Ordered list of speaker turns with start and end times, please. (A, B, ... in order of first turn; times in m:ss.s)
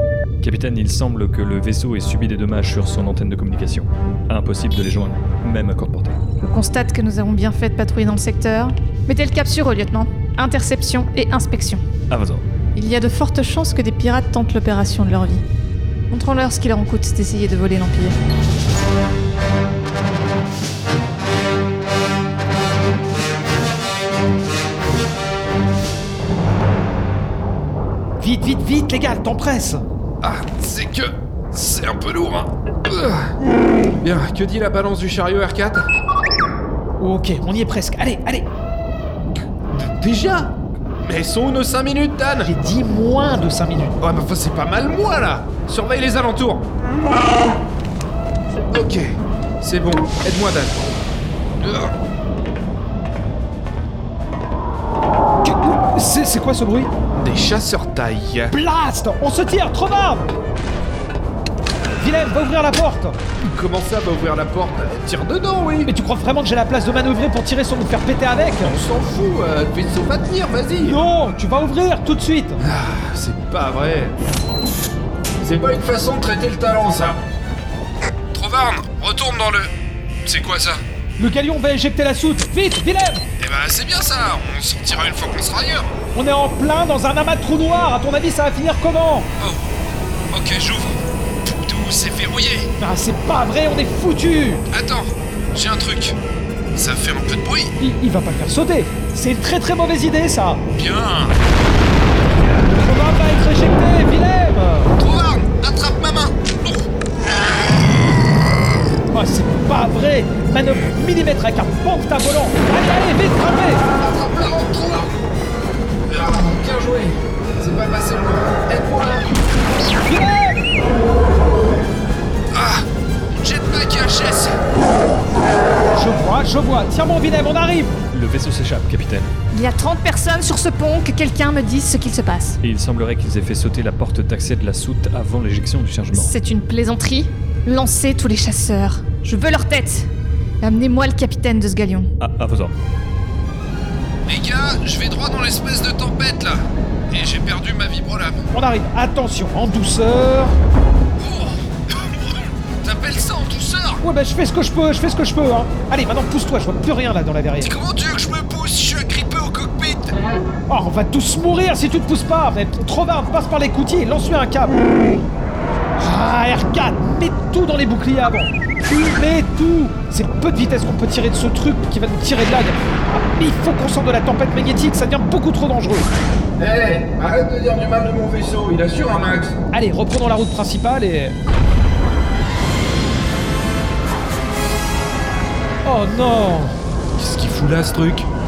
0:00.4-0:06.2 A
0:06.4-0:11.8 B
0:12.1-0:12.4 A
0:12.8-0:15.4 B
0:16.1-0:18.2 B
0:28.2-0:29.8 C
0:30.2-0:33.3 D
0:34.0-0:35.9 D
0:37.0-0:38.5 C
0:39.7-0:42.5 D
0:42.4-0:44.0 C
0:44.0-0:46.7 D
0:48.7-0:50.9 D
0:51.6-0:51.9 D
0:55.4-0:56.9 C
0:57.2-0:58.5 D
0:58.5-1:00.3 C
1:02.0-1:03.2 C
1:03.4-1:05.9 D
1:05.8-1:08.8 C
1:08.6-1:11.0 D
1:10.8-1:12.6 C
1:12.6-1:14.2 D
1:15.4-1:17.2 D
1:18.3-1:19.7 D
1:20.2-1:20.8 D
1:21.2-1:23.2 C
1:23.4-1:25.9 D
1:26.1-1:29.3 C
1:29.4-1:29.6 D
1:30.3-1:32.7 D
1:32.8-1:34.6 C
1:34.7-1:36.2 D
1:36.8-1:37.7 D
1:37.8-1:40.6 C
1:40.8-1:41.4 D
1:42.6-1:44.9 C
1:45.0-1:46.8 D
1:49.1-1:53.9 C
1:53.9-1:55.1 D
1:56.1-1:59.4 D
2:00.0-2:00.7 C
2:02.5-2:04.6 D
2:05.9-2:08.0 C
2:08.1-2:09.3 A
2:09.5-2:12.6 B
2:12.6-2:16.3 A
2:16.1-2:20.1 B
2:20.6-2:22.1 B
2:22.2-2:22.8 A
2:24.3-2:28.4 D
2:28.5-2:30.6 C
2:31.2-2:34.0 D
2:34.0-2:37.7 C
2:37.6-2:40.2 D
2:40.7-2:44.8 C
2:46.0-2:56.1 C
2:56.6-2:59.6 D
2:59.7-3:01.4 C
3:05.8-3:06.8 C
3:07.2-3:08.3 D